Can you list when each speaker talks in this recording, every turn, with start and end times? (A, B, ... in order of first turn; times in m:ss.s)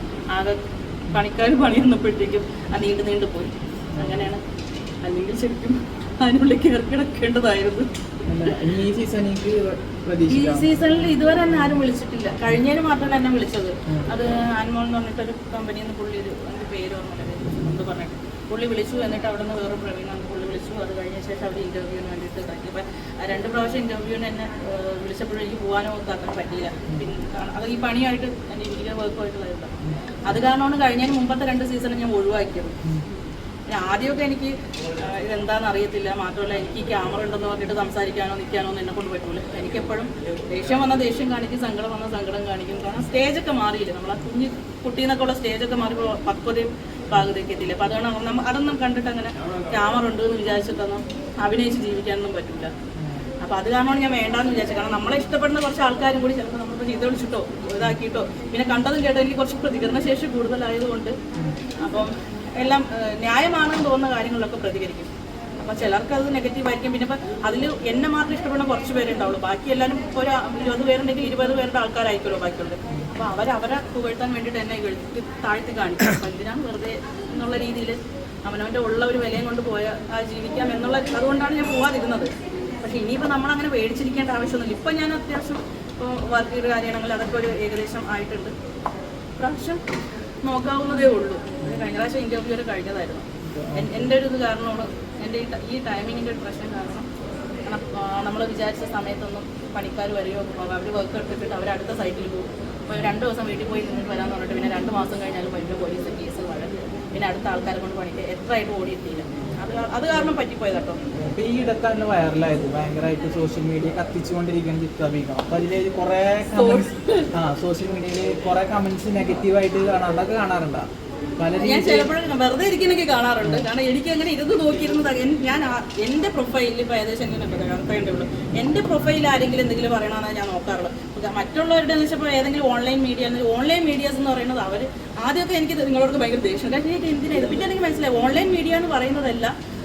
0:01.1-0:04.4 A
0:03.9-0:04.3 B
0:05.0-0:07.9 A
0:08.3-0:10.8 B
0:10.3-0:29.7 A
0:30.2-0:32.8 A
0:33.7-0:52.7 A
0:53.0-0:53.2 B
0:53.4-1:01.2 A
1:01.8-1:22.3 A
1:22.8-1:28.5 A
1:29.4-1:29.8 A
1:30.4-1:37.1 A
1:33.4-1:34.0 B
1:37.6-1:51.0 A
1:51.1-2:00.9 B
1:56.5-1:57.3 A
2:01.4-2:02.1 B
2:01.6-2:19.5 A